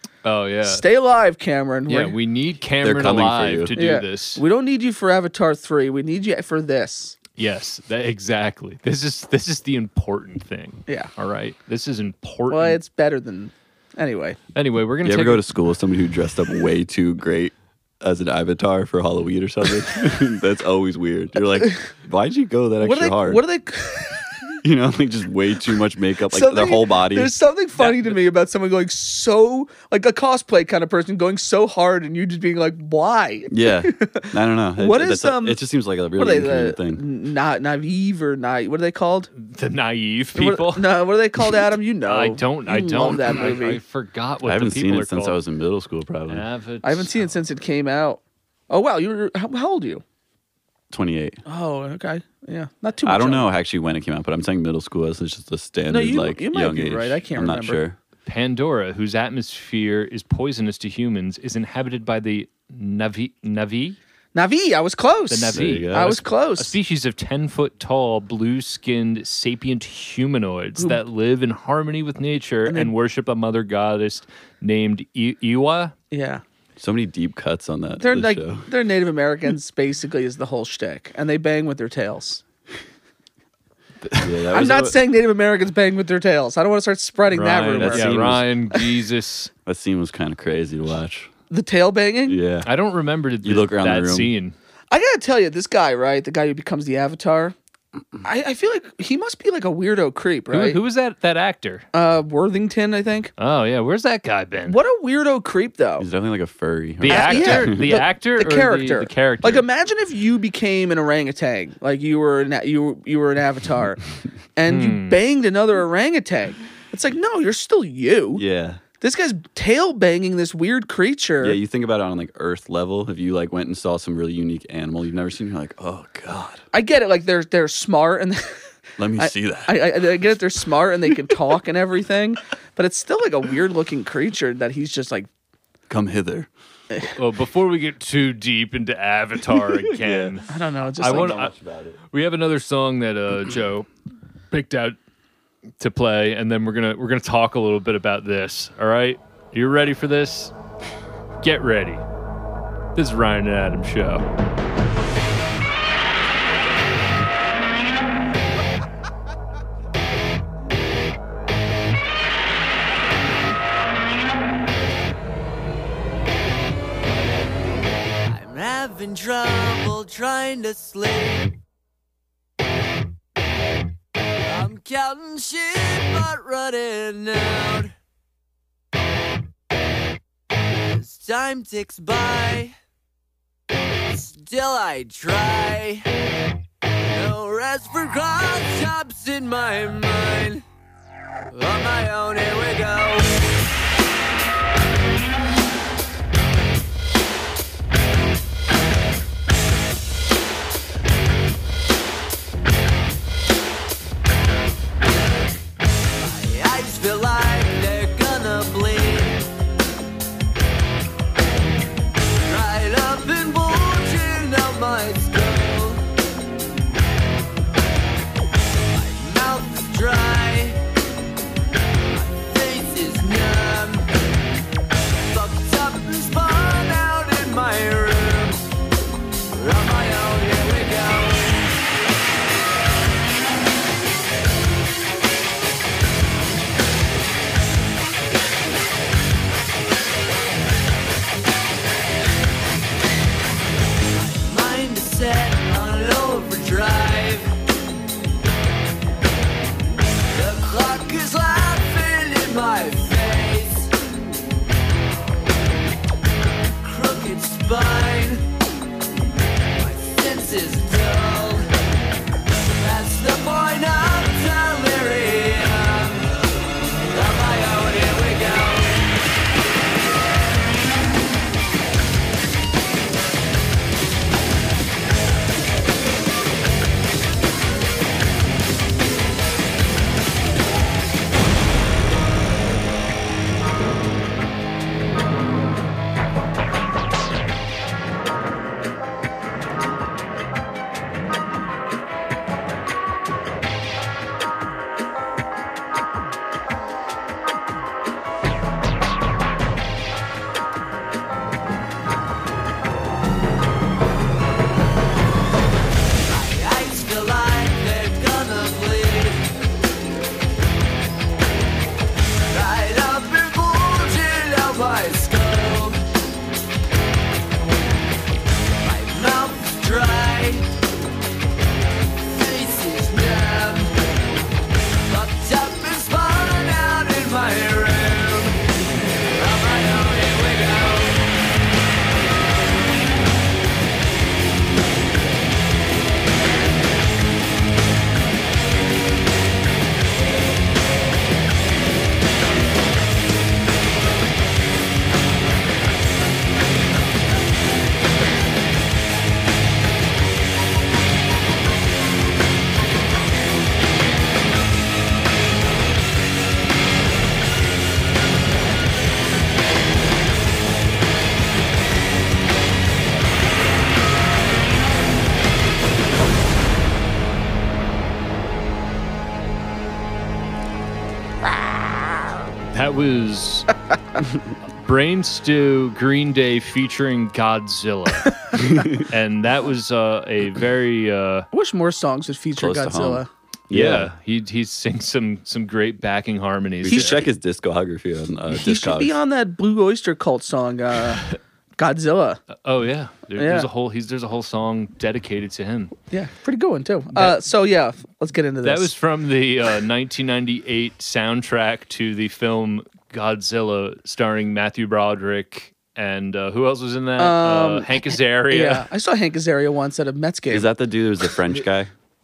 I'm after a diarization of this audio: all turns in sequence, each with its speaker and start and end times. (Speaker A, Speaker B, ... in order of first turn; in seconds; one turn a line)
Speaker A: 0.2-0.8
Speaker B: 0.6-2.1
Speaker A: 1.9-4.4
Speaker C: 2.8-3.8
Speaker B: 3.7-7.2
Speaker A: 7.4-12.8
Speaker B: 12.5-14.4
Speaker A: 14.5-15.4
Speaker C: 15.0-23.4
Speaker B: 22.8-24.5
Speaker C: 24.6-27.4
Speaker B: 26.3-35.6
Speaker A: 27.8-28.2
Speaker C: 33.5-37.0
Speaker B: 36.2-39.3
Speaker A: 39.4-40.9
Speaker B: 40.4-43.8
Speaker A: 42.0-45.4
Speaker C: 44.4-46.5
Speaker A: 46.3-47.3
Speaker B: 46.8-50.0
Speaker C: 50.9-51.4
Speaker B: 51.5-53.5
Speaker C: 53.0-58.0
Speaker B: 55.9-57.8
Speaker A: 58.2-64.0
Speaker B: 64.3-66.8
Speaker A: 65.3-75.9
Speaker C: 65.5-66.2
Speaker B: 72.7-72.9
Speaker B: 76.1-76.4
Speaker C: 76.8-78.7
Speaker B: 78.0-82.4
Speaker A: 84.0-84.3
Speaker C: 84.2-85.0
Speaker B: 84.5-88.2
Speaker A: 87.3-89.5
Speaker C: 87.8-88.5
Speaker C: 89.7-91.3
Speaker B: 91.5-92.4
Speaker C: 92.3-92.7
Speaker A: 92.7-94.5
Speaker C: 93.4-94.3
Speaker B: 94.9-97.6
Speaker B: 98.2-100.8
Speaker A: 100.5-101.9
Speaker B: 101.9-103.3
Speaker A: 103.4-104.8
Speaker B: 104.7-106.1
Speaker C: 106.0-107.9
Speaker A: 107.0-109.7
Speaker B: 107.0-114.0
Speaker B: 114.6-118.4
Speaker A: 114.7-115.2
Speaker C: 118.4-118.8
Speaker B: 119.0-121.6
Speaker C: 121.4-126.6
Speaker B: 126.7-128.6
Speaker C: 129.0-130.2
Speaker B: 129.2-135.3
Speaker C: 135.9-136.5
Speaker A: 137.2-141.5
Speaker C: 139.9-140.4
Speaker B: 140.5-141.4
Speaker C: 141.0-142.0
Speaker A: 142.1-143.9
Speaker A: 144.5-145.0
Speaker A: 145.8-150.5
Speaker A: 151.4-152.0
Speaker A: 152.9-154.2
Speaker D: 168.3-171.6
Speaker D: 174.5-177.9
Speaker D: 180.9-182.7
Speaker D: 184.1-186.1
Speaker D: 187.1-190.6
Speaker D: 191.5-193.4
Speaker D: 206.3-209.5
Speaker D: 212.5-216.0
Speaker D: 219.0-220.8
Speaker D: 222.1-224.1
Speaker D: 225.3-228.6
Speaker D: 229.5-231.6
Speaker D: 244.4-247.5
Speaker D: 250.3-253.9
Speaker D: 256.8-258.4
Speaker D: 259.8-261.7
Speaker D: 262.6-266.3
Speaker D: 267.1-268.9
Speaker D: 306.4-309.4
Speaker D: 312.5-316.0
Speaker D: 318.9-320.6
Speaker D: 322.4-323.9
Speaker D: 325.1-328.5
Speaker D: 329.4-331.1
Speaker A: 372.7-373.7
Speaker A: 374.8-381.5
Speaker C: 378.6-379.0
Speaker B: 381.5-383.3
Speaker C: 382.6-384.1
Speaker A: 383.7-387.2
Speaker C: 386.8-389.2
Speaker B: 388.5-391.2
Speaker B: 391.8-392.4
Speaker A: 392.6-395.9
Speaker B: 393.4-393.7
Speaker B: 396.1-398.9
Speaker A: 397.1-397.4
Speaker A: 398.6-408.9
Speaker B: 407.2-410.7
Speaker C: 410.5-411.9